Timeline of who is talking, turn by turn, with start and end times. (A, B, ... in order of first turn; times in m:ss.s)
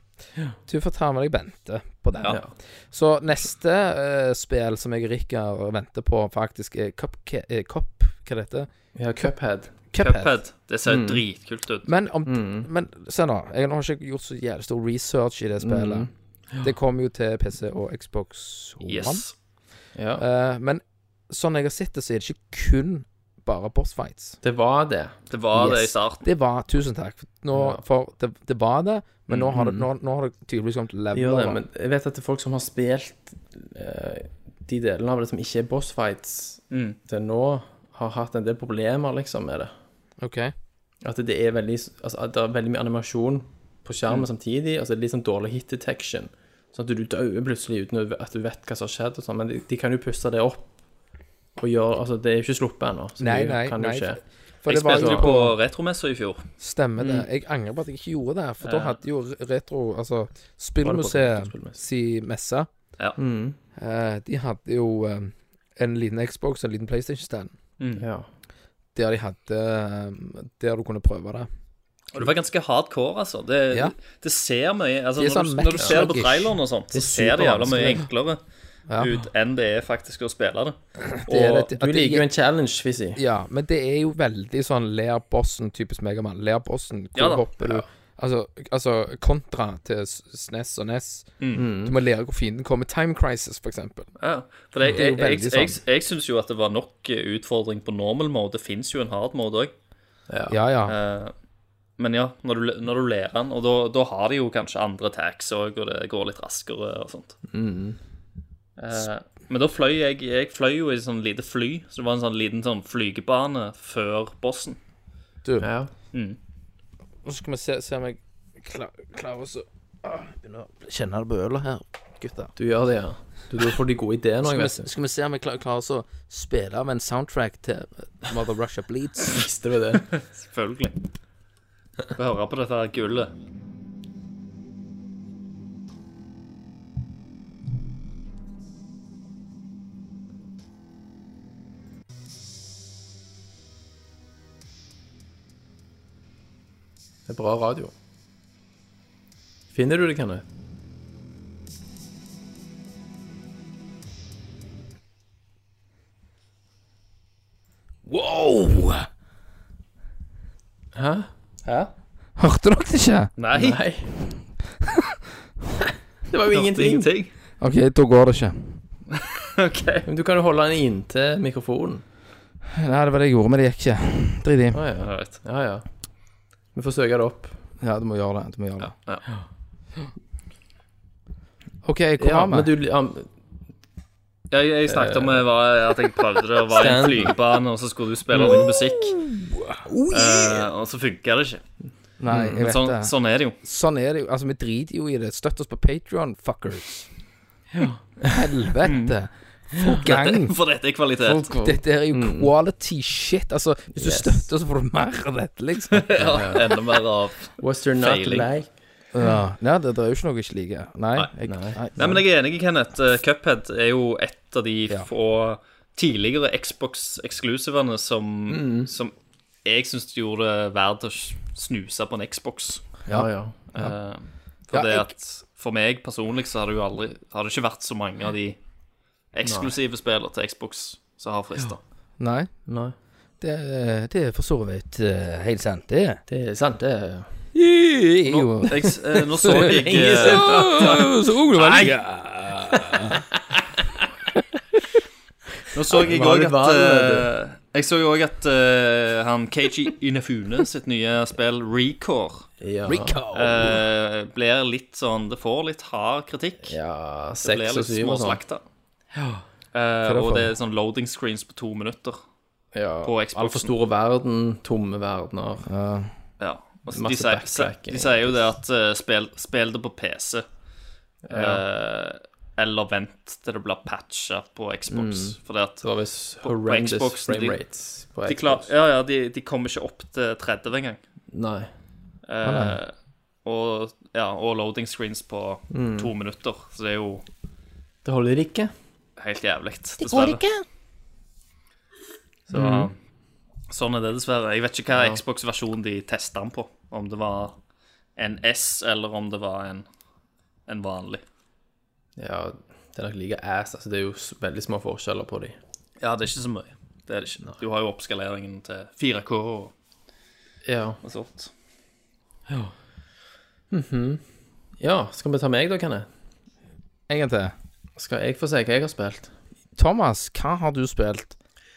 0:00.7-0:08.7 A
0:08.9-0:09.7 B
0:09.9-0:10.4 A
0:10.0-0:11.9 C
0:10.8-0:11.2 B
0:11.8-0:16.1 A
0:12.3-0:12.7 B
0:15.6-0:16.6 B
0:16.6-0:19.2 A
0:18.8-0:19.3 C
0:19.9-0:20.2 B
0:20.2-0:24.4 A
0:24.4-0:25.2 B
0:25.3-0:26.2 C
0:25.5-0:31.6 A
0:27.5-0:27.8 B
0:29.5-0:29.9 B
0:31.1-0:39.7 B
0:36.7-0:37.0 C
0:40.2-0:40.5 A
0:41.0-0:50.7 B
0:51.6-0:54.2 B
0:53.2-0:55.5 A
0:54.7-0:56.4 C
0:54.9-0:55.3 B
0:56.6-1:02.7 A
0:57.0-0:57.3 B
0:58.6-0:59.0 C
1:00.8-1:01.8 B
1:03.2-1:03.6 B
1:03.8-1:07.5 A
1:07.8-1:08.1 C
1:08.0-1:08.3 B
1:08.9-1:11.5 A
1:12.1-1:18.4 C
1:15.2-1:17.1 A
1:16.9-1:18.0 B
1:18.9-1:19.2 A
1:18.9-1:20.8 C
1:21.1-1:22.2 A
1:21.3-1:23.2 B
1:21.3-1:21.6 C
1:23.2-1:31.3 A
1:27.1-1:27.7 C
1:31.5-1:31.9 B
1:31.8-1:34.1 A
1:34.2-1:39.7 C
1:34.8-1:35.8 A
1:40.3-1:40.5 B
1:40.5-1:40.9 A
1:40.8-1:41.3 C
1:42.0-1:47.4 C
1:47.5-1:48.0 B
1:48.8-1:54.8 C
1:55.6-1:55.9 B
1:56.1-1:56.4 C
1:57.2-2:02.5 A
2:02.6-2:04.9 B
2:04.4-2:09.4 A
2:09.2-2:10.1 B
2:10.1-2:11.0 C
2:12.1-2:13.3 C
2:27.3-2:27.9 B
2:29.7-2:30.4 B
2:38.0-2:39.1 A
2:40.9-2:41.3 B
2:41.6-2:41.9 C
2:42.4-2:43.3 A
2:43.4-2:43.8 C
2:43.5-2:44.1 B
2:46.3-2:47.1 B
2:46.5-2:47.3 C
2:47.6-2:48.8 A
2:49.1-2:50.1 C
2:50.0-2:52.0 B
2:52.7-2:54.8 A
2:54.7-2:55.8 B
2:55.0-2:55.4 C
2:56.7-2:57.6 B
2:57.8-2:58.9 A
2:58.8-2:59.2 C
3:01.8-3:02.7 A
3:02.2-3:03.3 B
3:04.5-3:09.2 C
3:04.9-3:05.4 B
3:06.7-3:07.4 B
3:08.3-3:08.7 B
3:09.2-3:09.8 A
3:09.8-3:10.7 B
3:10.1-3:11.6 C
3:12.2-3:17.1 A
3:12.4-3:13.6 C
3:17.7-3:18.0 B
3:18.2-3:20.5 A
3:18.8-3:19.1 C
3:20.0-3:21.5 C
3:21.2-3:22.5 B
3:21.6-3:26.4 A
3:23.9-3:24.4 B
3:25.9-3:28.5 C
3:26.2-3:26.7 B
3:27.6-3:28.7 B
3:29.1-3:32.2 A
3:31.4-3:32.1 B
3:32.0-3:39.1 C
3:38.5-3:38.9 B
3:39.6-3:42.8 C
3:43.1-3:43.9 A
3:43.1-3:43.6 B
3:43.7-3:48.6 C
3:44.7-3:45.1 A
3:49.3-3:51.8 C
3:49.4-3:49.7 B
3:52.2-3:52.5 A
3:52.7-3:52.9 B
3:53.4-3:56.2 A
3:56.3-3:57.3 B
3:57.5-4:03.2 A
3:58.3-4:00.7 C
3:59.5-4:02.0 B
4:02.7-4:03.6 B
4:05.7-4:12.5 C
4:06.0-4:07.3 B
4:12.6-4:13.2 B
4:12.9-4:13.8 A
4:13.3-4:16.8 C
4:16.6-4:18.4 B
4:17.4-4:18.6 C
4:19.7-4:22.2 C
4:20.0-4:20.5 A
4:22.7-4:25.7 B
4:23.0-4:23.7 C
4:25.7-4:26.1 A
4:26.4-4:30.4 C
4:26.9-4:28.5 B
4:31.2-4:31.6 B
4:31.3-4:35.8 C
4:34.9-4:38.7 B
4:36.4-4:37.6 C
4:38.2-4:41.0 C
4:41.3-4:41.7 B
4:42.2-4:42.9 C
4:42.4-4:42.8 A
4:43.4-4:47.2 C
4:45.7-4:46.1 B
4:48.0-4:48.7 B
4:49.2-4:50.4 C
4:50.1-4:50.6 B
4:52.5-4:52.9 B
4:52.5-4:52.9 C
4:53.7-4:57.6 C
4:54.9-4:55.2 B
4:58.2-4:59.9 C
5:00.7-5:01.2 C
5:02.2-5:05.6 B
5:06.0-5:09.7 C
5:10.6-5:11.0 B
5:11.0-5:11.5 C
5:13.7-5:14.2 B
5:14.8-5:16.1 B
5:17.1-5:17.5 A
5:18.0-5:19.3 B
5:19.8-5:21.3 A